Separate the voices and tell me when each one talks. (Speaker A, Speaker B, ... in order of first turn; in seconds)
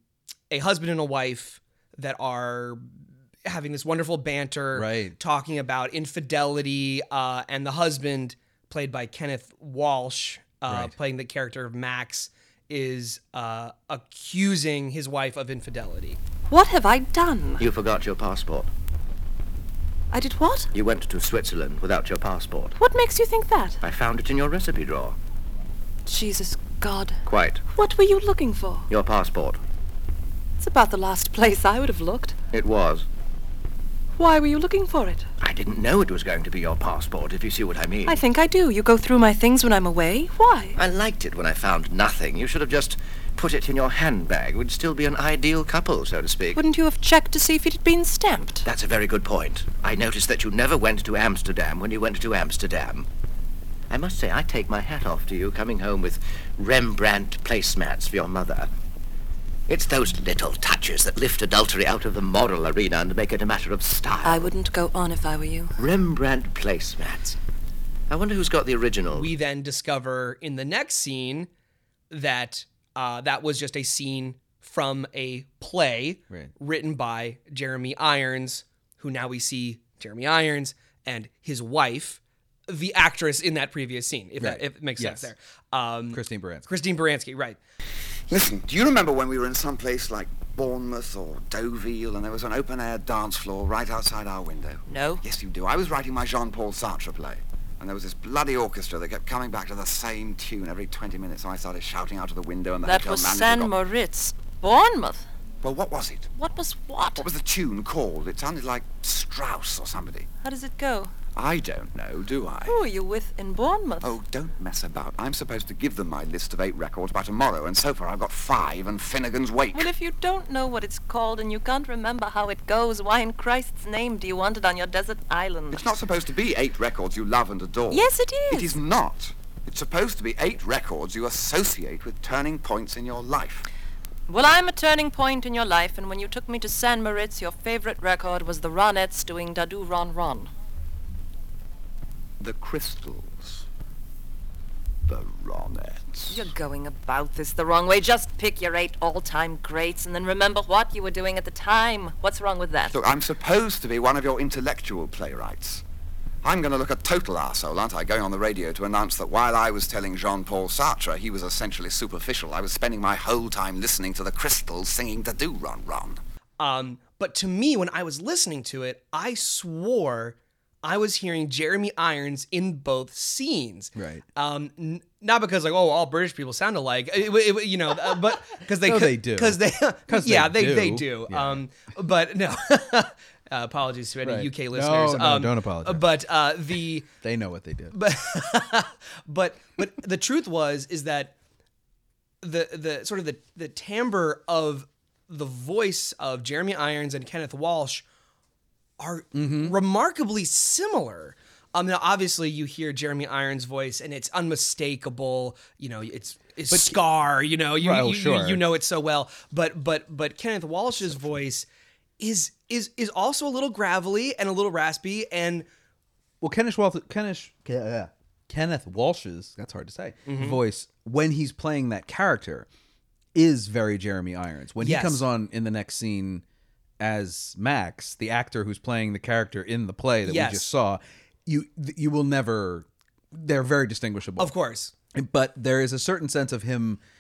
Speaker A: 0.5-2.9, 3.4-16.2, 69.1-71.5, 72.1-87.6, 166.6-187.1, 187.9-191.3, 192.4-198.0, 199.0-211.7, 212.2-215.7, 220.3-220.6, 224.8-225.2, 230.2-230.7, 234.4-234.9
Speaker B: 4.7-5.2, 10.7-10.9, 84.4-85.3, 86.1-86.7, 173.9-174.2, 178.6-181.6, 184.2-186.0, 187.2-188.0, 199.3-199.7, 206.7-207.0, 207.8-208.6, 216.4-222.7, 223.3-226.4, 227.0-234.5, 235.1-237.0
Speaker C: 16.5-17.6, 20.1-20.7, 22.8-23.8, 26.1-27.2, 27.7-28.9, 30.6-32.4, 34.2-35.3, 38.0-40.8, 46.5-48.6, 64.2-65.7, 94.9-95.2, 102.8-105.3, 106.3-107.2, 110.4-111.1, 112.7-114.1, 119.7-125.9, 127.9-128.8, 134.3-140.5, 146.3-152.9
Speaker D: 17.6-18.7, 20.7-22.8, 23.8-25.2, 27.2-27.6, 28.9-29.6, 32.5-33.1, 35.4-38.2, 40.8-46.6, 48.6-53.1, 53.9-58.7, 59.7-64.5, 65.8-67.4, 68.1-69.3
Speaker E: 88.3-103.7, 105.6-106.3, 107.1-110.3, 111.3-112.8, 114.0-119.9, 125.7-133.6, 142.4-143.7, 145.1-146.5, 152.9-155.8, 156.4-166.2